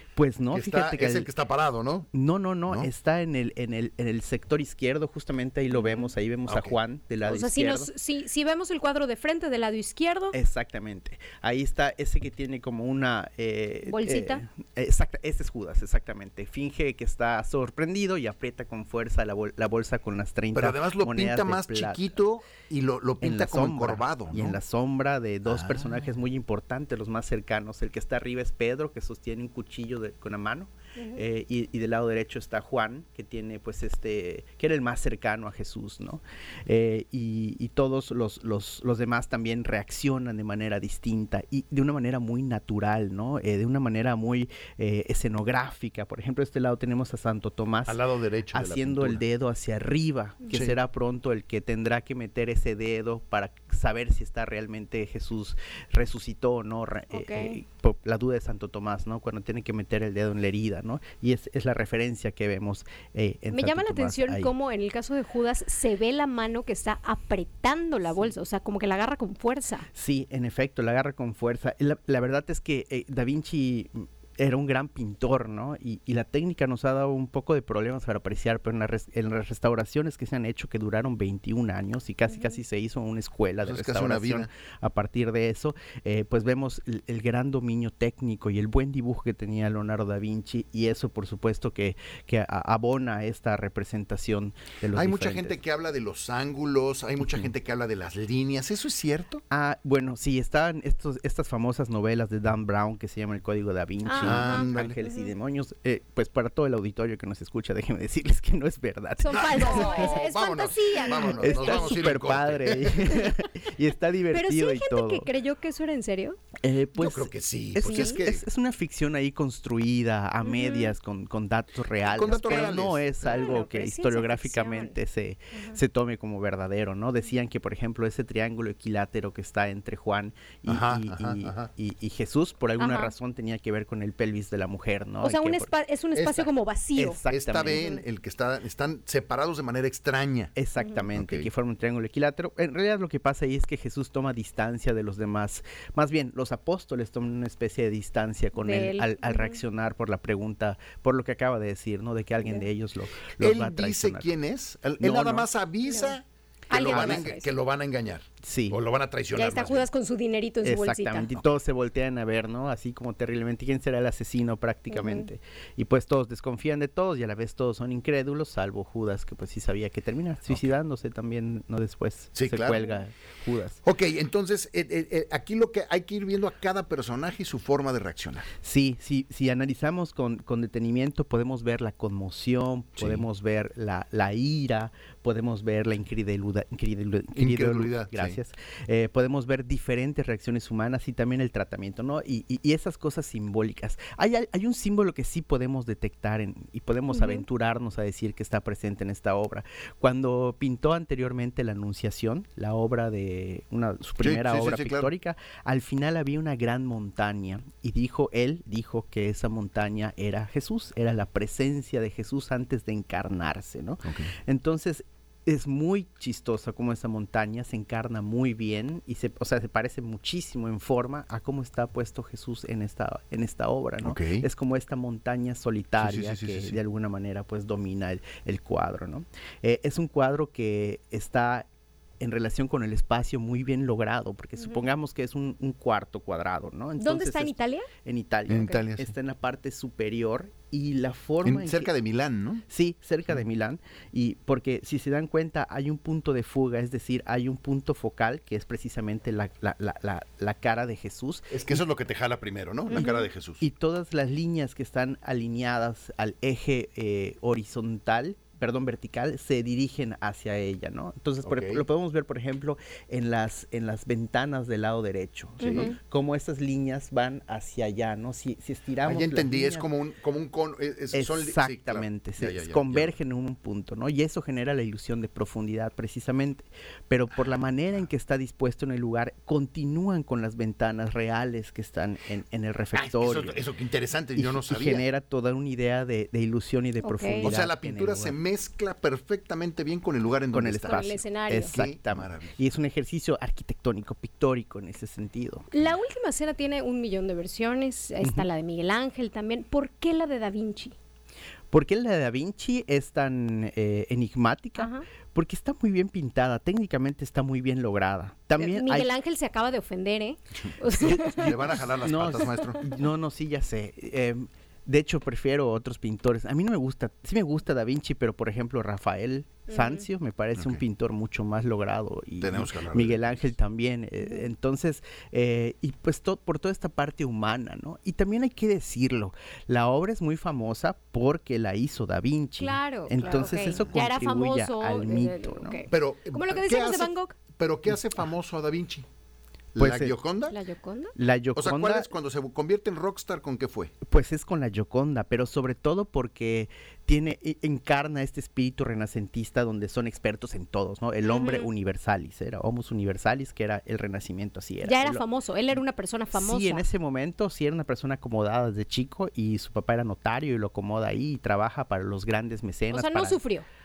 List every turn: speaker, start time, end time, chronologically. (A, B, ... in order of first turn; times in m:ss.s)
0:00.2-0:01.3 A
0:00.5-0:02.1 B
0:02.1-0:07.9 A
0:05.7-0:06.1 C
0:06.5-0:06.8 B
0:07.2-0:10.3 C
0:10.3-0:22.2 A
0:13.8-0:14.4 C
0:20.5-0:24.6 B
0:23.2-0:48.0 A
0:25.5-0:25.9 B
0:31.0-0:31.2 C
0:47.8-0:49.2 B
0:48.5-1:04.5 A
0:50.4-0:50.7 C
0:57.1-0:57.6 C
1:03.5-1:09.9 C
1:08.1-1:08.4 A
1:10.0-1:35.6 A
1:22.3-1:22.6 C
1:23.6-1:24.5 B
1:34.9-1:39.4 B
1:39.5-1:50.2 A
1:44.0-1:45.3 C
1:44.2-1:45.0 B
1:49.2-1:52.0 C
1:49.3-1:53.2 B
1:51.1-1:55.3 A
1:54.3-1:56.4 C
1:56.6-2:15.7 A
1:57.0-1:58.4 B
1:57.8-1:58.2 C
2:00.4-2:00.9 C
2:02.1-2:03.5 B
2:02.2-2:04.9 C
2:10.7-2:11.7 B
2:12.8-2:13.1 C
2:15.2-2:18.0 C
2:16.2-2:16.5 B
2:17.0-2:17.9 A
2:17.3-2:20.5 B
2:20.6-2:34.3 A
2:20.8-2:21.0 C
2:21.2-2:21.5 B
2:28.5-2:29.6 C
2:33.4-2:39.9 B
2:35.0-2:35.5 A
2:35.8-2:36.2 C
2:36.7-2:37.4 A
2:36.7-2:37.5 C
2:38.4-2:38.8 A
2:39.3-2:41.4 C
2:40.6-2:53.8 A
2:44.9-2:45.3 C
2:50.5-2:50.7 B
2:52.3-2:52.8 B
2:53.8-2:58.5 B
2:58.6-3:51.7 A
3:03.0-3:03.2 B
3:07.3-3:08.4 B
3:17.1-3:17.4 C
3:24.2-3:25.1 B
3:34.0-3:34.3 B
3:44.0-3:44.4 B
3:46.0-3:46.8 B
3:52.2-4:01.9 A
3:54.6-3:54.8 C
3:57.0-3:57.9 C
3:58.5-3:59.1 B
4:01.4-4:02.6 B
4:02.7-4:11.8 A
4:11.5-4:13.6 B
4:12.9-4:13.3 C
4:13.6-4:29.9 A
4:21.4-4:21.8 B
4:25.6-4:25.9 B
4:25.6-4:26.0 C
4:29.0-4:33.1 B
4:31.1-4:43.6 A
4:42.9-4:45.0 B
4:44.4-4:48.4 A
4:47.0-4:47.5 C
4:47.4-4:52.6 B
4:50.5-4:55.7 A
4:50.8-4:51.8 C
4:55.7-5:01.0 C
5:01.7-5:09.1 A
5:04.8-5:05.0 C
5:08.6-5:11.8 C
5:10.7-5:12.8 B
5:12.0-5:35.8 A
5:12.4-5:13.0 C
5:19.7-5:20.0 C
5:20.6-5:20.8 B
5:22.4-5:23.5 B
5:32.6-5:37.4 C
5:33.2-5:34.0 B
5:35.9-5:39.1 B
5:39.8-5:40.6 B
5:39.8-5:40.2 A
5:40.5-5:41.1 C
5:41.2-5:42.1 A
5:41.6-5:43.9 B
5:44.0-5:55.2 A
5:51.2-5:51.7 C
5:54.8-5:56.8 C
5:56.3-6:03.4 A
6:02.9-6:03.6 C